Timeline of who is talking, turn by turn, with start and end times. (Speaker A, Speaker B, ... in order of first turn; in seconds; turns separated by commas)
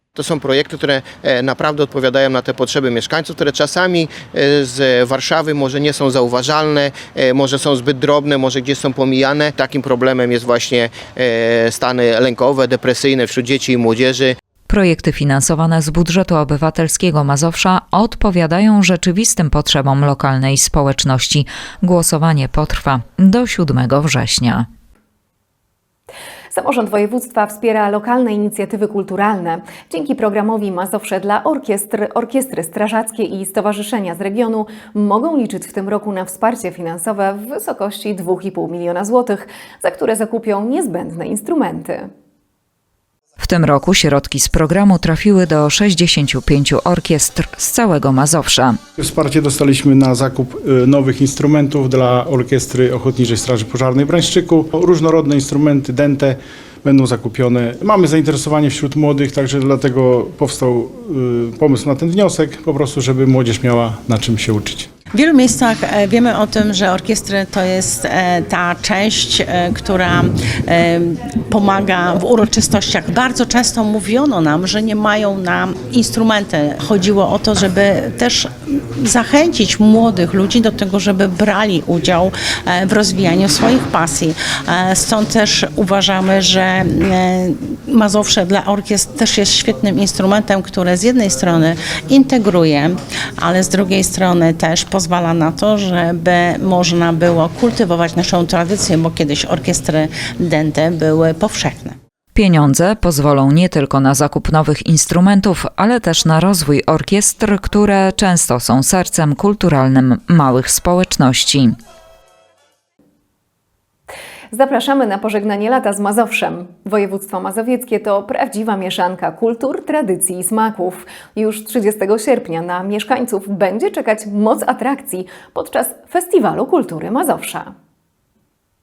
Speaker A: 0.1-14.3, Speaker B: 14.7-24.6, Speaker C: 26.5-42.1, Speaker B: 43.4-48.8, Speaker D: 49.0-56.2, Speaker D: 56.8-64.9, Speaker E: 65.1-102.0, Speaker B: 102.3-111.7, Speaker C: 114.5-127.7